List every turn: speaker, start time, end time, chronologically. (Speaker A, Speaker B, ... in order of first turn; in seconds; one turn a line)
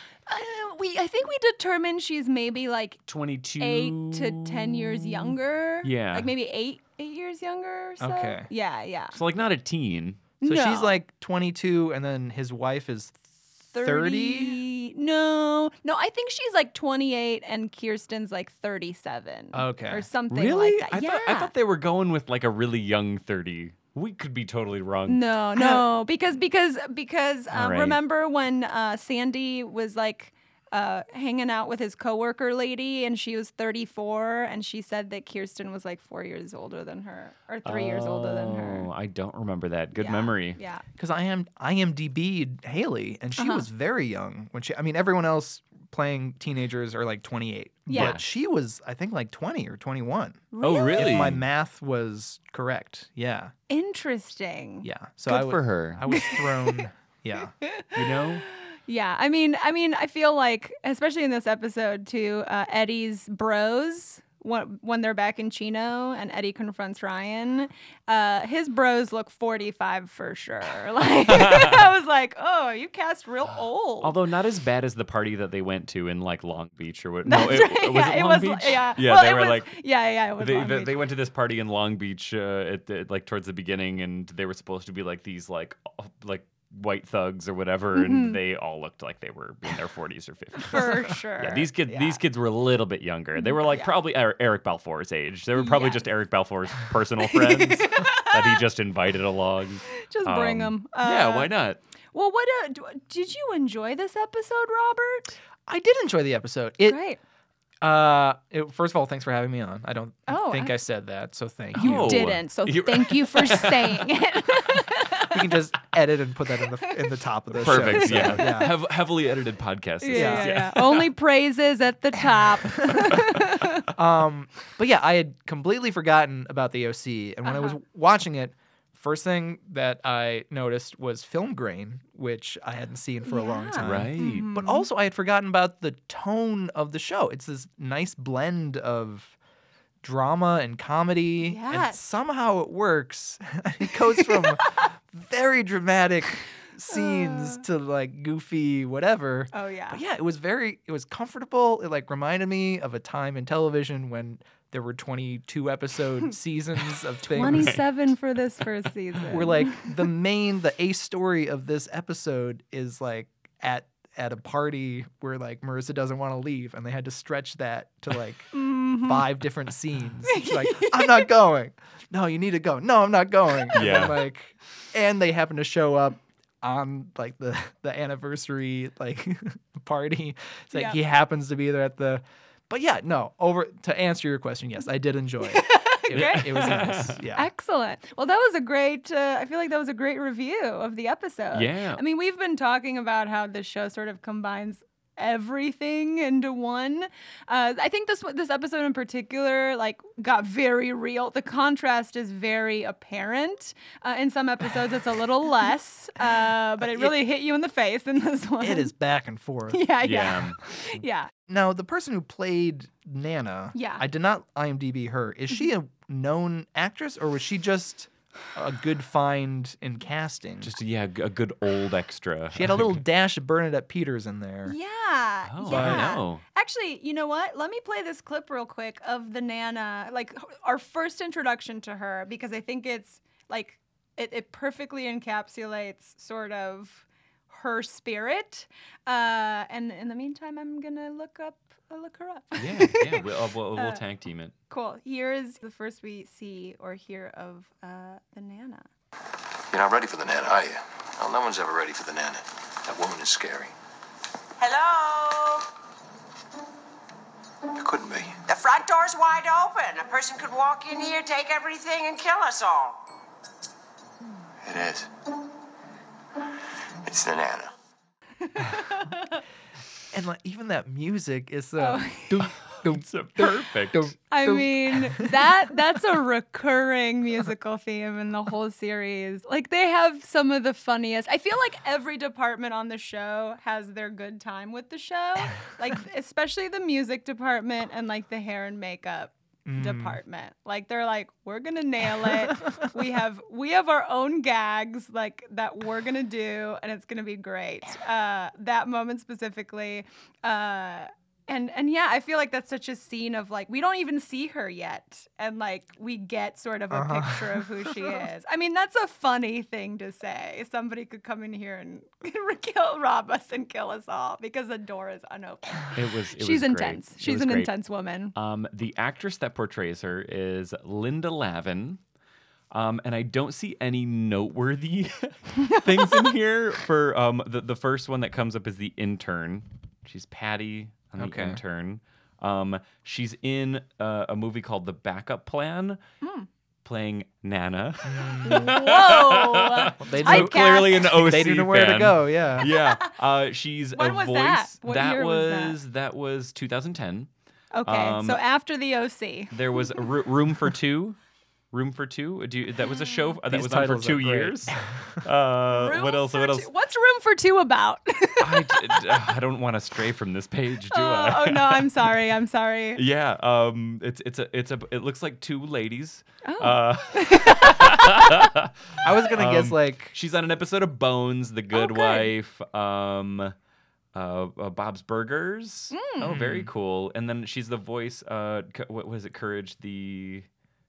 Speaker A: 0.3-3.0
Speaker B: 3.1-6.3
Speaker A: 3.6-9.2
Speaker C: 8.0-8.5
Speaker B: 9.1-10.2
Speaker A: 10.4-11.0
Speaker C: 10.4-14.6
Speaker A: 13.7-21.5
Speaker C: 19.5-20.1
Speaker B: 20.3-25.2
Speaker A: 25.1-38.9
Speaker B: 27.5-28.0
Speaker B: 37.6-40.6
Speaker A: 40.0-40.8
Speaker C: 41.0-53.5
Speaker A: 43.4-43.7
Speaker A: 47.9-48.2
Speaker B: 47.9-48.2
Speaker A: 50.5-51.3
Speaker B: 50.6-51.4
Speaker A: 53.7-54.9
Speaker C: 54.8-57.5
Speaker B: 55.3-56.0
Speaker A: 56.1-56.8
Speaker A: 57.6-74.2
Speaker B: 57.9-58.5
Speaker B: 71.2-71.9
Speaker B: 74.0-79.8
Speaker A: 77.2-81.0
Speaker B: 80.4-101.8
Speaker A: 88.0-88.4
Speaker A: 90.6-92.2
Speaker A: 93.4-93.9
Speaker A: 95.6-96.0
Speaker A: 97.3-98.6
Speaker A: 100.0-101.5
Speaker A: 102.1-105.4
Speaker C: 105.7-107.0
Speaker A: 106.8-107.2
Speaker C: 107.8-112.4
Speaker A: 110.3-110.8
Speaker B: 111.8-114.0
Speaker A: 111.8-115.4
Speaker C: 115.3-118.7
Speaker A: 116.8-118.7
Speaker B: 117.6-121.1
Speaker A: 120.0-123.9
Speaker C: 120.1-120.5
Speaker C: 123.9-139.3
Speaker A: 127.5-127.8
Speaker A: 133.2-134.9
Speaker B: 133.8-134.5
Speaker C: 140.0-157.8
Speaker A: 141.4-142.0
Speaker A: 144.2-144.9
Speaker A: 146.9-147.6
Speaker A: 149.5-150.0
Speaker A: 157.3-159.9
Speaker B: 157.4-157.9
Speaker B: 158.6-159.4
Speaker C: 159.3-187.5
Speaker A: 168.5-169.3
Speaker A: 170.3-171.3
Speaker B: 173.7-174.2
Speaker A: 180.7-181.0
Speaker A: 185.4-208.9
Speaker B: 186.1-187.2
Speaker B: 191.5-192.0
Speaker C: 206.8-207.2
Speaker C: 208.6-209.8
Speaker A: 209.7-211.3
Speaker B: 210.0-210.6
Speaker C: 211.5-220.7
Speaker A: 213.8-214.0
Speaker B: 220.6-223.0
Speaker C: 222.5-224.8
Speaker A: 224.7-243.2
Speaker B: 225.5-226.4
Speaker C: 225.7-226.2
Speaker B: 242.6-244.5
Speaker A: 243.8-244.0
Speaker A: 244.7-248.9
Speaker D: 249.7-253.7
Speaker E: 254.6-255.7
Speaker D: 257.7-258.4
Speaker E: 258.5-263.0
Speaker D: 264.6-265.1
Speaker D: 267.1-267.7
Speaker A: 268.4-269.4
Speaker C: 270.1-275.5
Speaker A: 271.8-272.5
Speaker B: 272.8-274.1
Speaker A: 274.3-318.3
Speaker C: 289.7-290.2
Speaker C: 306.9-308.2
Speaker B: 315.9-317.7
Speaker B: 318.4-322.0
Speaker B: 322.7-336.0
Speaker A: 325.7-326.3
Speaker C: 331.2-331.6
Speaker A: 336.2-336.5
Speaker B: 336.9-347.3
Speaker C: 338.0-338.8
Speaker A: 338.4-341.1
Speaker C: 340.0-342.7
Speaker A: 342.6-343.1
Speaker A: 343.9-345.8
Speaker A: 347.7-350.0
Speaker B: 347.9-348.4
Speaker B: 349.5-351.2
Speaker B: 351.7-356.7
Speaker A: 352.8-353.4
Speaker C: 353.5-355.2
Speaker A: 355.7-359.1
Speaker B: 358.4-362.1
Speaker A: 360.9-363.0
Speaker B: 363.0-373.6
Speaker A: 366.4-368.5
Speaker C: 369.0-370.1
Speaker A: 371.7-372.3
Speaker B: 374.1-380.5
Speaker A: 375.9-376.4
Speaker C: 376.2-376.7